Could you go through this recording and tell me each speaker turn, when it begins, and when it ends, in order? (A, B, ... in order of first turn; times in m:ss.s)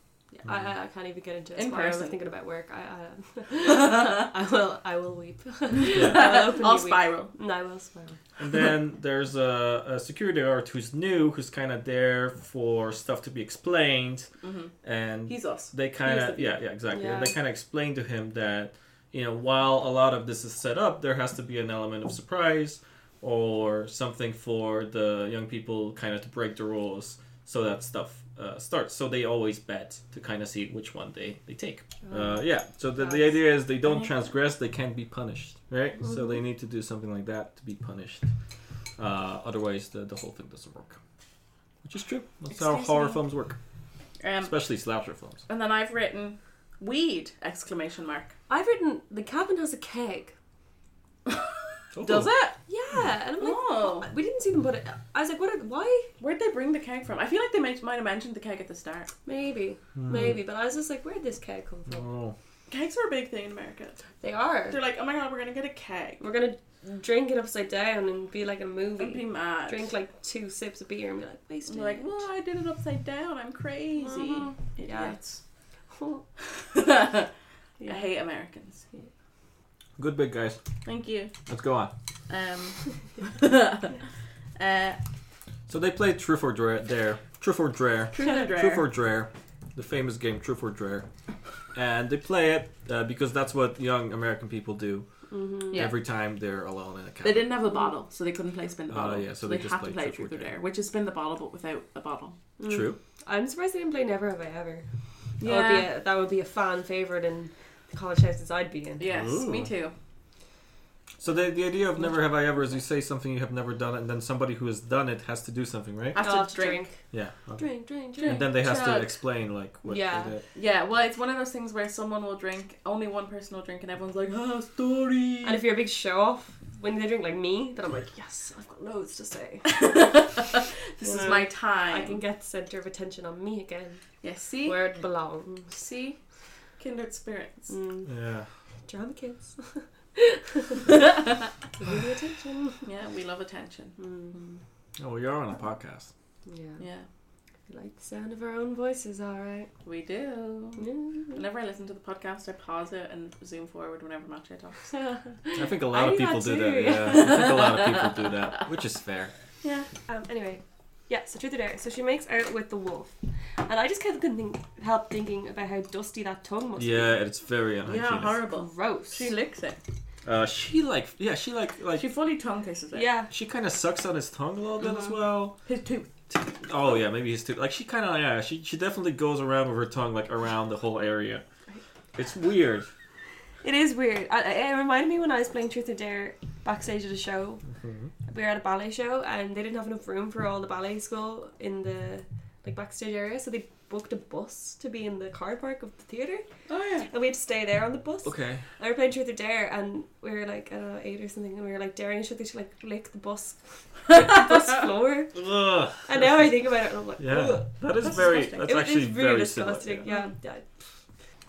0:00.3-0:08.2 A
0:01.6-0:02.2 B
0:03.6-0:04.2 B
0:05.8-0:07.3 B
0:05.9-0:06.2 C
0:08.4-0:14.3 C
0:14.4-0:14.7 B
0:14.8-0:38.2 C
0:15.3-0:16.6 B
0:16.9-0:17.3 A
0:32.0-0:32.4 A
0:33.0-0:33.3 A
0:36.0-0:36.3 A
0:39.0-0:41.0 C
0:41.8-0:43.6 C
0:42.5-0:43.2 A
0:44.2-0:44.6 B
0:44.4-0:45.4 C
0:45.5-0:48.4 B
0:48.5-0:50.3 A
0:51.3-0:52.6 B
0:51.9-0:52.3 C
0:52.7-0:56.1 A
0:53.4-0:54.1 B
0:56.2-0:59.1 B
0:59.2-1:02.0 A
1:00.0-1:00.4 C
1:01.9-1:02.3 C
1:02.7-1:04.0 B
1:04.2-1:04.8 A
1:04.7-1:06.2 B
1:06.2-1:12.2 A
1:09.0-1:09.9 B
1:11.7-1:15.4 B
1:14.0-1:15.2 A
1:15.9-1:16.2 A
1:16.5-1:17.3 B
1:17.8-1:18.1 A
1:17.9-1:18.9 B
1:20.0-1:20.6 C
1:20.8-1:21.3 B
1:21.4-1:21.9 C
1:22.3-1:24.0 B
1:24.6-1:25.0 B
1:25.7-1:31.0 C
1:28.1-1:28.9 B
1:31.7-1:35.1 C
1:35.3-1:35.9 A
1:35.7-1:37.5 C
1:37.2-1:42.4 B
1:38.9-1:40.5 C
1:42.6-1:44.9 A
1:42.7-1:43.0 C
1:45.4-1:45.9 B
1:45.4-1:49.0 A
1:49.0-1:49.9 B
1:49.1-1:49.7 C
1:51.2-1:56.2 C
1:56.1-1:56.9 B
1:56.2-1:57.0 A
1:57.1-2:00.4 C
1:57.6-1:59.1 A
1:58.2-1:58.5 B
1:59.8-2:00.4 A
2:00.5-2:05.6 B
2:05.4-2:10.1 A
2:09.7-2:12.2 B
2:11.0-2:14.1 A
2:14.2-2:14.8 B
2:14.6-2:15.9 A
2:15.8-2:16.2 B
2:16.8-2:17.7 B
2:17.7-2:18.1 A
2:18.0-2:18.5 C
2:18.9-2:20.9 A
2:21.8-2:22.8 A
2:22.8-2:24.6 B
2:24.0-2:24.4 A
2:25.0-2:26.1 C
2:26.5-2:26.8 A
2:26.8-2:27.1 B
2:27.7-2:29.7 A
2:29.8-2:34.9 B
2:30.8-2:31.4 A
2:34.9-2:37.6 A
2:35.5-2:39.3 C
2:39.6-2:39.9 B
2:40.1-2:47.2 A
2:46.8-2:48.4 C
2:47.9-2:49.8 B
2:48.5-2:49.3 A
2:50.2-2:52.0 C
2:52.0-2:53.1 B
2:52.9-2:53.3 A
2:53.3-2:55.6 C
2:55.6-2:56.2 B
2:56.3-3:01.4 C
3:02.2-3:02.9 C
3:03.6-3:07.6 A
3:07.7-3:08.1 C
3:08.3-3:16.4 A
3:16.7-3:17.1 B
3:17.1-3:25.4 A
3:18.2-3:18.6 C
3:25.3-3:26.6 C
3:26.0-3:30.7 A
3:27.2-3:30.0 C
3:28.0-3:28.7 B